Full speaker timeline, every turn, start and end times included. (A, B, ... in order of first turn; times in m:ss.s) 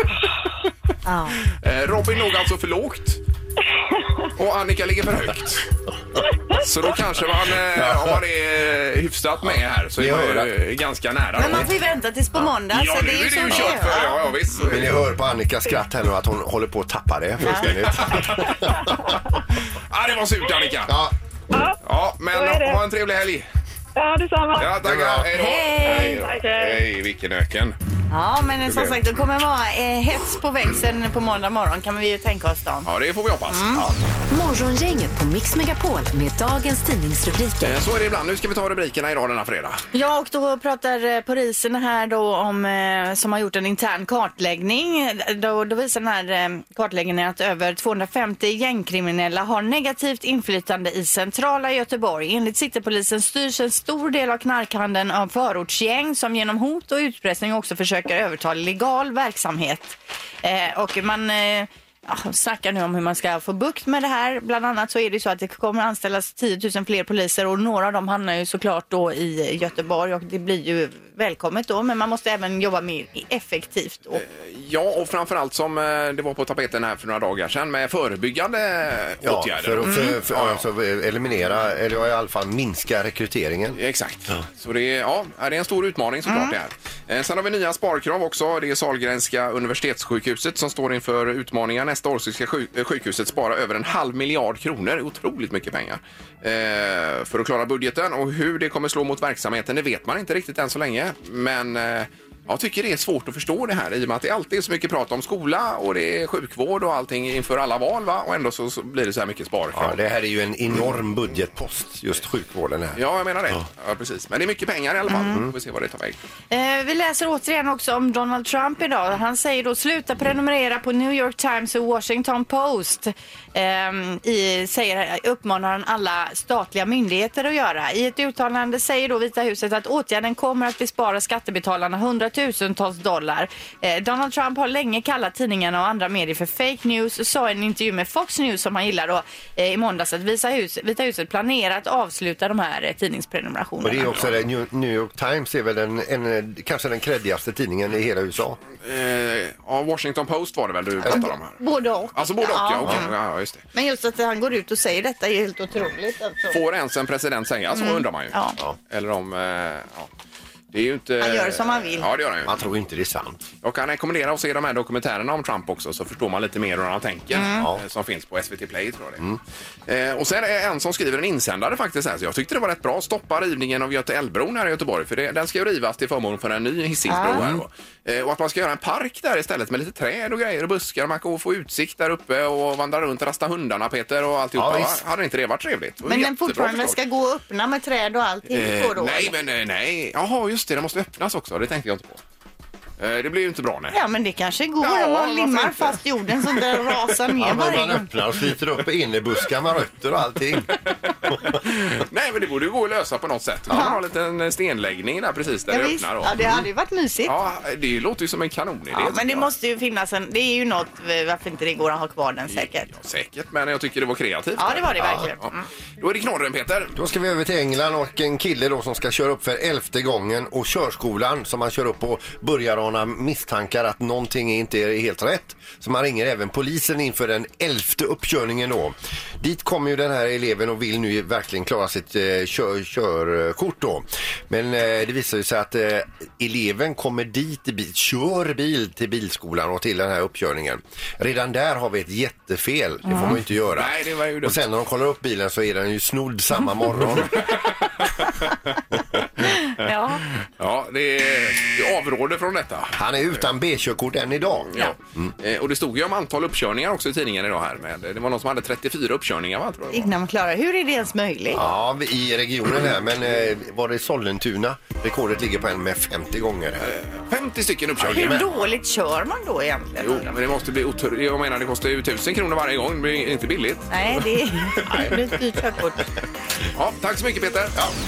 0:01.0-0:01.4 A
0:01.5-0:03.2 B
0:04.4-0:05.6 B
0:06.6-0:11.7 B
0:07.7-0:08.2 C
0:09.4-0:10.5 C
0:11.4-0:14.2 A
0:12.7-0:15.0 B
0:14.6-0:18.9 C
0:17.6-0:18.8 B
0:19.9-0:21.0 B
0:20.9-0:21.1 C
0:21.5-0:21.8 D
0:21.8-0:23.4 B
0:22.3-0:22.8 D
0:24.0-0:24.7 D
0:24.6-0:27.8 B
0:24.8-0:25.3 C
0:25.3-0:26.2 A
0:25.8-0:26.8 D
0:28.1-0:32.9 A
0:28.6-0:29.0 B
0:32.8-0:33.8 B
0:33.5-0:33.9 A
0:34.3-0:37.8 E
0:37.6-0:39.8 B
0:39.9-1:14.2 A
1:14.1-1:20.6 B
1:19.2-1:23.8 C
1:19.8-1:20.1 A
1:23.8-1:50.0 B
1:26.3-1:26.5 A
1:49.7-1:53.0 C
1:52.9-1:56.2 B
1:55.1-1:55.4 A
1:56.5-2:24.1 A
2:23.8-2:28.6 C
2:24.0-2:24.4 B
2:28.8-2:31.6 B
2:31.0-2:33.1 A
2:32.1-2:33.6 B
2:33.7-2:36.6 A
2:36.5-2:38.4 B
2:37.7-2:38.6 A
2:38.9-2:40.1 B
2:40.7-2:42.6 B
2:41.2-2:42.1 A
2:42.4-2:43.4 C
2:43.6-2:49.3 B
2:47.3-2:47.7 A
2:47.5-2:47.8 C
2:49.9-3:07.0 B
2:57.1-2:57.4 A
2:57.2-2:57.6 C
3:04.5-3:05.0 C
3:06.0-3:09.3 A
3:08.5-3:12.2 B
3:13.0-3:14.0 B
3:13.9-3:18.1 A
3:14.8-3:17.1 B
3:17.4-3:20.7 C
3:20.9-3:26.3 B
3:21.3-3:21.5 C
3:23.7-3:24.0 A
3:25.7-3:27.3 A
3:27.2-3:29.5 B
3:28.9-3:32.9 A
3:32.5-3:36.9 B
3:34.6-3:35.6 A
3:35.0-3:35.2 C
3:36.9-4:07.4 C
4:03.1-4:03.3 A
4:03.7-4:04.6 B
4:07.4-4:08.3 B
4:09.4-4:10.2 A
4:10.3-4:13.0 B
4:12.9-4:15.3 C
4:14.7-4:20.1 B
4:19.9-4:21.6 A
4:21.5-4:26.9 C
4:26.8-4:28.5 B
4:28.0-4:28.5 C
4:28.1-4:30.3 A
4:30.0-4:35.1 B
4:33.9-4:36.0 A
4:36.7-4:37.8 B